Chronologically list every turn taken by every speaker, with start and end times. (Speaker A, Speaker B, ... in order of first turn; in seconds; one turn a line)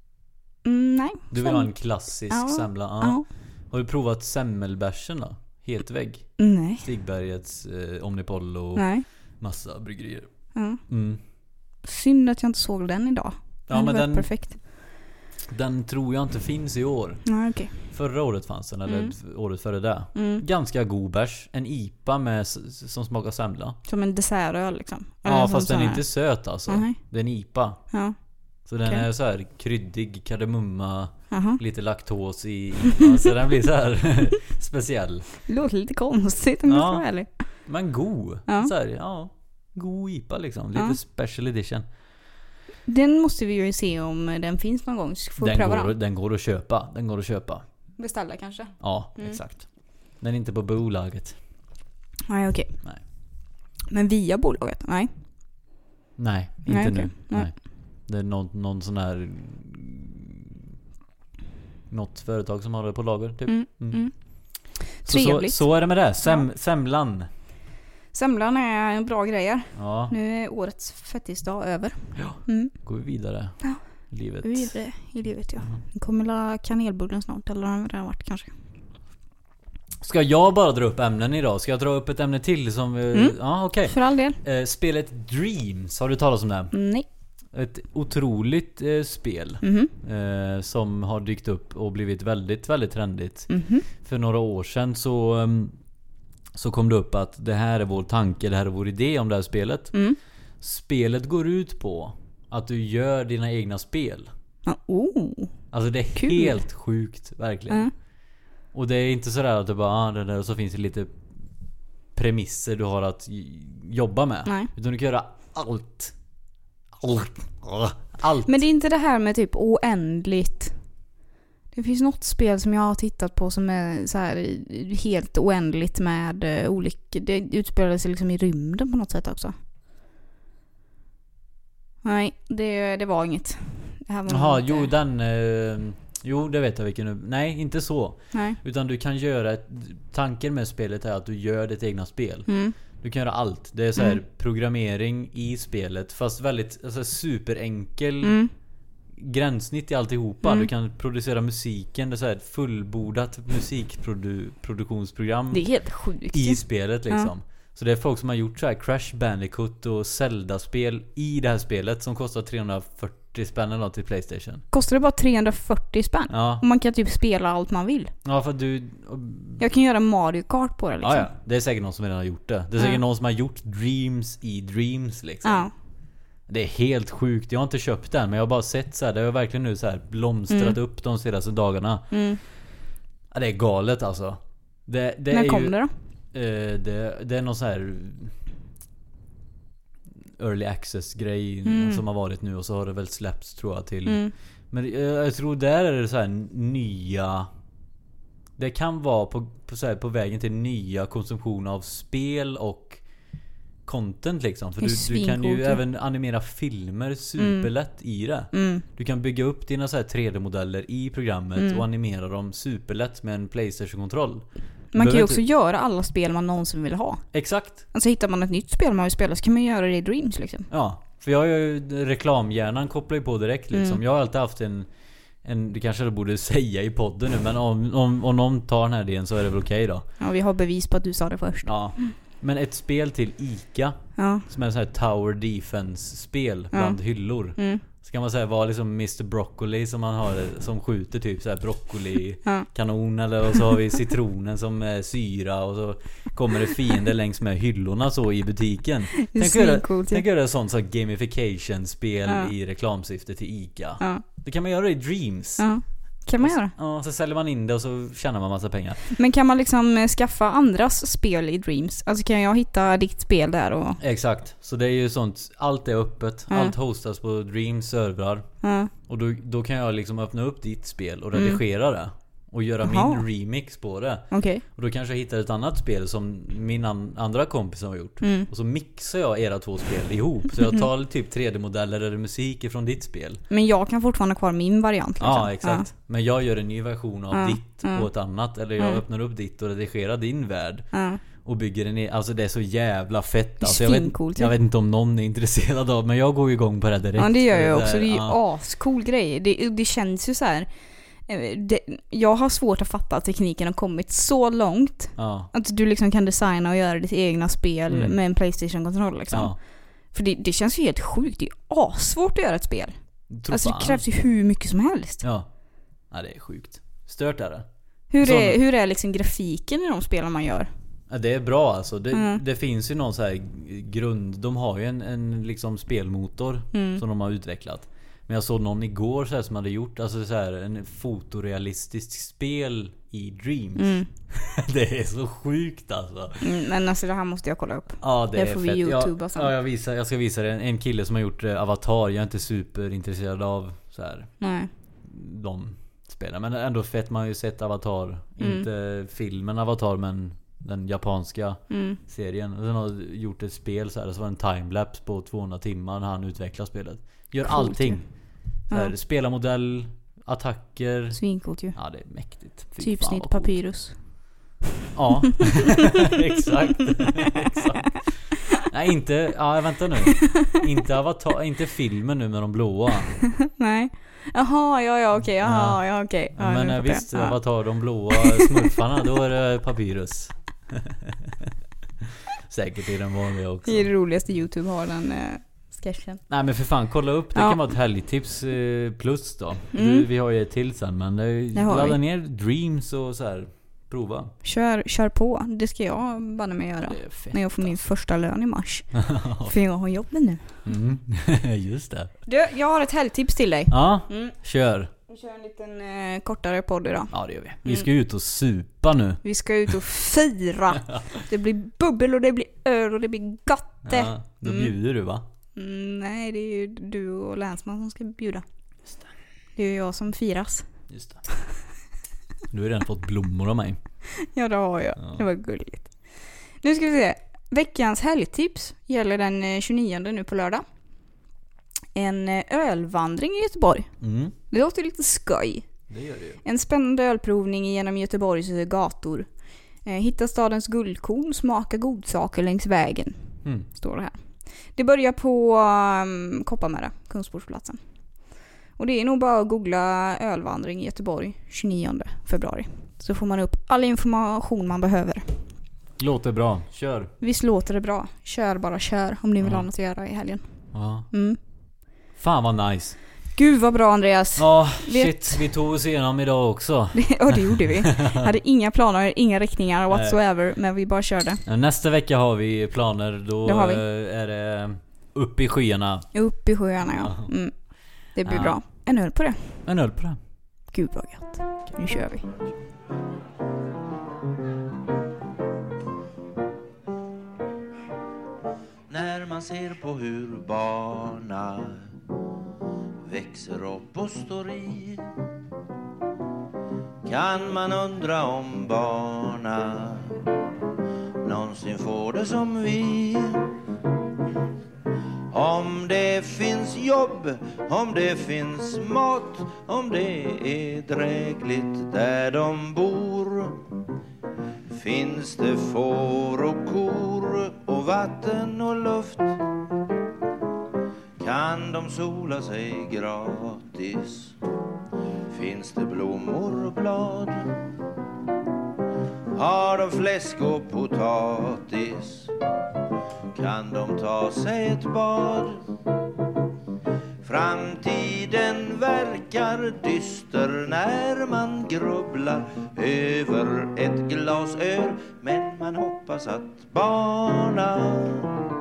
Speaker A: 0.6-1.7
Speaker B: 1.3-10.3
Speaker A: 2.3-3.2
Speaker A: 6.4-6.8
Speaker A: 8.8-9.1
Speaker A: 10.5-10.8
Speaker B: 10.9-11.2
Speaker A: 11.8-14.6
Speaker B: 13.7-14.6
Speaker B: 15.5-23.8
Speaker A: 17.2-17.8
Speaker A: 18.9-19.1
Speaker A: 20.1-20.4
Speaker A: 23.9-26.1
Speaker B: 25.2-27.8
Speaker A: 26.7-27.0
Speaker B: 28.6-35.2
Speaker A: 31.3-31.6
Speaker A: 32.8-33.2
Speaker A: 35.4-37.3
Speaker B: 36.6-37.1
Speaker B: 37.6-41.9
Speaker A: 42.9-45.9
Speaker B: 45.4-47.6
Speaker A: 48.0-49.4
Speaker B: 48.8-49.7
Speaker B: 50.2-51.4
Speaker A: 52.3-52.7
Speaker A: 53.9-55.1
Speaker B: 56.2-60.6
Speaker A: 56.7-57.5
Speaker B: 61.9-64.0
Speaker A: 63.5-64.2
Speaker A: 64.7-65.6
Speaker B: 65.1-67.3
Speaker A: 68.1-72.7
Speaker B: 69.7-70.1
Speaker B: 72.2-74.7
Speaker A: 74.4-78.5
Speaker B: 80.0-86.7
Speaker A: 83.1-84.4
Speaker A: 86.7-87.0
Speaker B: 87.5-95.8
Speaker A: 89.6-89.9
Speaker A: 93.5-93.8
Speaker B: 96.5-100.0
Speaker A: 99.9-100.2
Speaker B: 100.6-104.3
Speaker A: 104.7-105.6
Speaker B: 105.7-107.9
Speaker A: 106.2-106.6
Speaker B: 108.7-111.1
Speaker B: 112.1-116.1
Speaker B: 117.0-118.6
Speaker A: 118.5-120.7
Speaker A: 121.7-129.5
Speaker A: 132.0-134.9
Speaker B: 134.3-148.4
Speaker A: 138.3-138.6
Speaker A: 142.5-142.7
Speaker A: 148.2-148.5
Speaker B: 149.2-164.6
Speaker A: 150.4-150.7
Speaker A: 155.5-157.3
Speaker A: 164.7-168.1
Speaker B: 166.3-166.6
Speaker B: 168.2-169.6
Speaker A: 169.6-171.3
Speaker B: 171.0-175.7
Speaker A: 175.4-175.7
Speaker B: 176.5-182.1
Speaker A: 180.5-180.8
Speaker A: 182.1-182.4
Speaker B: 183.3-185.8
Speaker A: 185.3-185.9
Speaker B: 186.3-188.3
Speaker B: 190.4-197.5
Speaker A: 191.7-192.0
Speaker A: 194.1-194.3
Speaker B: 198.6-203.0
Speaker B: 203.8-215.4
Speaker A: 204.8-205.8
Speaker A: 207.4-207.7
Speaker A: 208.5-208.8
Speaker A: 211.6-211.8
Speaker A: 214.9-217.2
Speaker B: 217.3-217.8
Speaker A: 217.9-220.7
Speaker B: 220.7-224.9
Speaker A: 223.7-224.0
Speaker B: 225.4-230.1
Speaker A: 230.2-231.7
Speaker B: 231.6-255.7
Speaker A: 234.2-234.4
Speaker A: 236.7-237.0
Speaker A: 237.5-237.8
Speaker A: 249.1-250.2
Speaker A: 255.6-256.7
Speaker B: 256.4-259.0
Speaker A: 259.1-264.0
Speaker B: 264.0-283.4
Speaker A: 268.6-268.9
Speaker A: 272.8-273.2
Speaker A: 274.3-274.6
Speaker A: 278.2-278.5
Speaker A: 283.5-285.9
Speaker B: 285.2-290.9
Speaker A: 287.3-288.1
Speaker A: 290.9-291.2
Speaker B: 291.4-298.4
Speaker A: 293.6-294.5
Speaker A: 297.2-300.7
Speaker A: 301.3-309.5
Speaker B: 305.2-305.5
Speaker B: 307.9-308.2
Speaker B: 309.3-309.6
Speaker A: 310.1-312.9
Speaker B: 313.3-314.0
Speaker A: 313.5-315.2
Speaker B: 315.2-315.5
Speaker B: 316.1-317.6
Speaker A: 318.1-320.7
Speaker B: 318.2-318.6
Speaker B: 321.1-336.4
Speaker A: 322.1-322.4
Speaker A: 326.7-327.0
Speaker A: 333.8-334.1
Speaker A: 336.4-339.5
Speaker B: 338.0-344.3
Speaker A: 344.4-344.7
Speaker B: 345.0-358.0
Speaker A: 348.4-348.7
Speaker A: 351.7-352.0
Speaker A: 357.4-358.0
Speaker B: 358.7-361.2
Speaker A: 361.1-361.8
Speaker B: 361.7-363.5
Speaker A: 362.8-364.0
Speaker B: 364.9-373.2
Speaker A: 365.5-366.2
Speaker A: 367.0-368.0
Speaker A: 370.2-370.6
Speaker A: 373.4-377.4
Speaker B: 375.4-375.8
Speaker B: 376.3-383.9
Speaker A: 378.1-379.1
Speaker A: 383.6-386.2
Speaker B: 386.3-394.3
Speaker A: 389.7-390.1
Speaker A: 391.5-392.0
Speaker A: 394.4-400.5
Speaker B: 396.9-397.8
Speaker B: 398.9-399.5
Speaker B: 400.6-402.1
Speaker A: 402.3-404.3
Speaker B: 403.7-404.9
Speaker A: 405.1-407.1
Speaker B: 407.1-409.7
Speaker A: 409.2-414.7
Speaker B: 413.8-415.2
Speaker A: 415.6-418.4
Speaker A: 419.6-420.7
Speaker B: 420.9-421.2
Speaker B: 422.5-423.8
Speaker A: 424.2-425.9
Speaker A: 426.6-430.6
Speaker A: 431.9-433.9
Speaker B: 434.0-434.3
Speaker A: 434.5-435.7
Speaker B: 435.9-436.4
Speaker A: 436.4-439.3
Speaker A: 439.8-443.2
Speaker A: 443.7-444.2
Speaker A: 444.7-447.8
Speaker A: 448.8-455.4
Speaker B: 456.0-457.1
Speaker A: 457.2-460.4
Speaker B: 459.4-459.7
Speaker B: 460.7-461.1
Speaker A: 461.0-461.4
Speaker B: 462.1-463.0
Speaker A: 463.4-465.4
Speaker B: 464.4-468.3
Speaker A: 466.9-471.4
Speaker B: 469.9-470.2
Speaker B: 471.4-476.1
Speaker A: 473.4-473.8
Speaker A: 476.1-477.5
Speaker B: 476.8-477.3
Speaker A: 478.1-479.6
Speaker B: 478.2-478.6
Speaker B: 479.6-480.2
Speaker A: 480.7-482.3
Speaker C: 488.9-491.9
Speaker C: 493.0-495.1
Speaker C: 497.0-500.2
Speaker C: 501.2-503.5
Speaker C: 505.3-513.6
Speaker C: 514.7-519.4
Speaker C: 521.2-524.4
Speaker C: 525.3-527.6
Speaker C: 529.3-532.3
Speaker C: 533.3-535.6
Speaker C: 537.2-548.4